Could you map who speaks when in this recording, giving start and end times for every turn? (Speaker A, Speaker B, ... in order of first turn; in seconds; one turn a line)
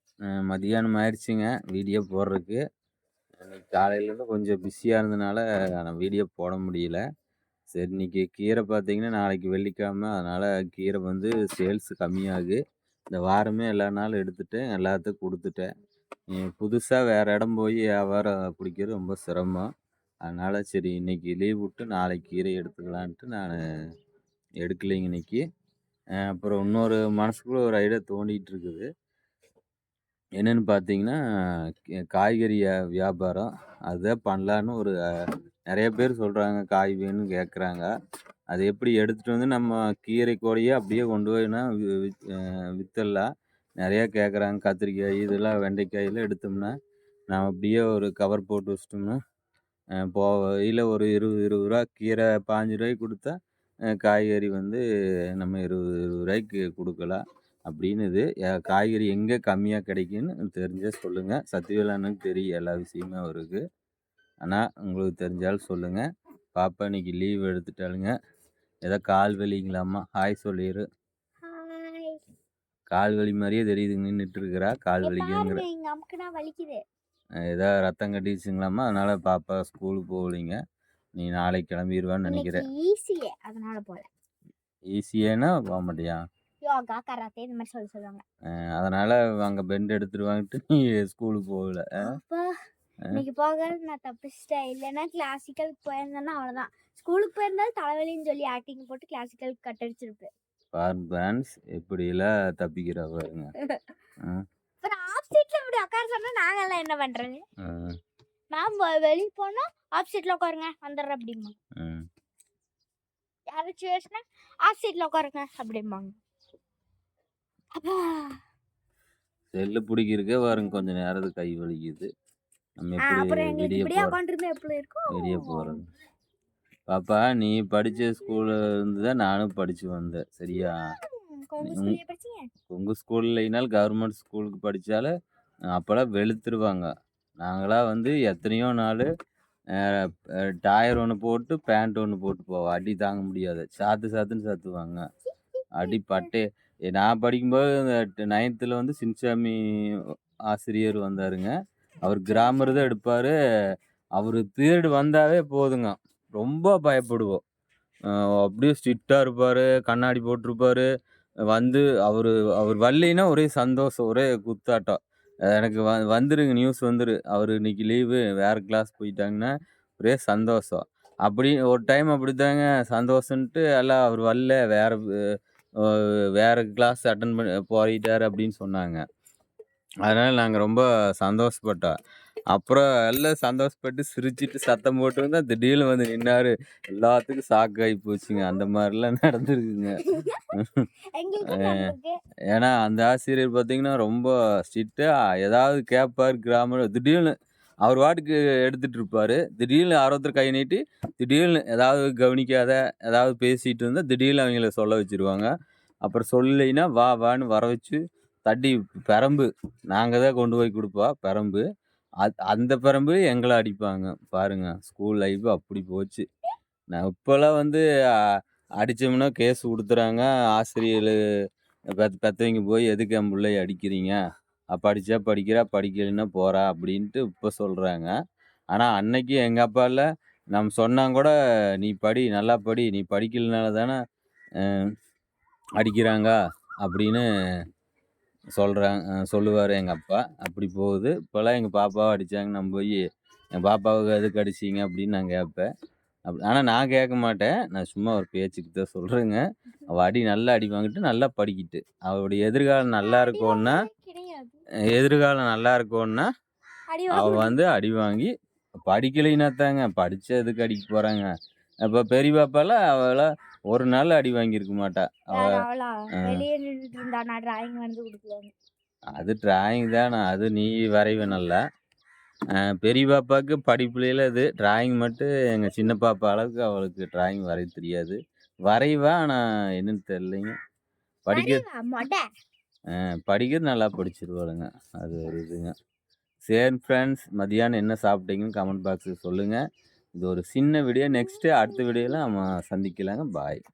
Speaker A: 0.3-2.6
Speaker A: 3.4-7.0
Speaker A: 7.7-12.6
Speaker A: 13.1-15.7
Speaker A: 16.3-19.7
Speaker A: 20.2-23.6
Speaker A: 24.6-25.4
Speaker A: 26.2-28.9
Speaker A: 30.4-31.2
Speaker A: 32.1-34.9
Speaker A: 35.7-37.9
Speaker A: 38.5-43.3
Speaker A: 43.8-46.7
Speaker A: 47.3-49.2
Speaker A: 50.0-53.3
Speaker A: 53.9-54.8
Speaker A: 55.4-63.6
Speaker A: 64.4-66.0
Speaker A: 66.5-68.1
Speaker A: 68.8-70.8
Speaker B: 71.4-72.2
Speaker A: 72.9-75.6
Speaker B: 75.0-76.8
Speaker A: 77.5-80.6
Speaker A: 81.2-82.6
Speaker B: 82.3-84.1
Speaker A: 84.9-86.2
Speaker B: 86.6-88.2
Speaker A: 88.8-92.0
Speaker B: 92.0-92.5
Speaker B: 93.1-100.3
Speaker A: 100.7-103.5
Speaker B: 104.8-107.4
Speaker A: 107.6-107.9
Speaker B: 108.5-111.5
Speaker A: 111.8-112.0
Speaker B: 113.5-116.2
Speaker B: 117.8-118.4
Speaker A: 119.5-122.1
Speaker A: 122.8-124.1
Speaker B: 123.0-125.8
Speaker A: 125.1-125.8
Speaker A: 126.9-130.8
Speaker B: 130.5-132.5
Speaker A: 131.7-131.9
Speaker A: 132.7-135.1
Speaker A: 135.7-136.9
Speaker A: 137.4-139.1
Speaker A: 139.8-140.0
Speaker A: 140.6-145.0
Speaker B: 145.6-146.3
Speaker A: 145.8-149.6
Speaker A: 150.5-151.5
Speaker A: 152.0-153.3
Speaker B: 152.3-152.8
Speaker A: 154.2-157.4
Speaker A: 158.1-160.9
Speaker A: 161.5-165.0
Speaker A: 165.5-175.0
Speaker A: 175.8-179.0
Speaker A: 180.1-181.9
Speaker A: 182.5-190.0
Speaker B: 190.0-190.4
Speaker A: 190.6-190.8
Speaker B: 191.1-192.2
Speaker A: 191.5-191.8
Speaker A: 192.5-205.5
Speaker A: 206.0-211.6
Speaker A: 212.2-216.2
Speaker A: 216.9-217.8
Speaker A: 218.8-221.2
Speaker A: 222.0-224.2
Speaker A: 224.7-228.1
Speaker A: 228.7-234.0
Speaker A: 235.8-237.2
Speaker A: 238.6-243.0
Speaker A: 243.6-245.7
Speaker A: 246.3-253.9
Speaker B: 253.0-254.6
Speaker A: 254.9-256.3
Speaker B: 256.9-257.5
Speaker A: 257.1-258.3
Speaker A: 258.8-261.3
Speaker A: 261.9-265.6
Speaker B: 265.3-268.5
Speaker A: 269.1-271.6
Speaker A: 272.6-280.5
Speaker A: 281.2-281.6
Speaker B: 281.3-282.2
Speaker A: 282.9-285.7
Speaker A: 286.5-289.6
Speaker A: 290.2-293.6
Speaker B: 291.4-292.1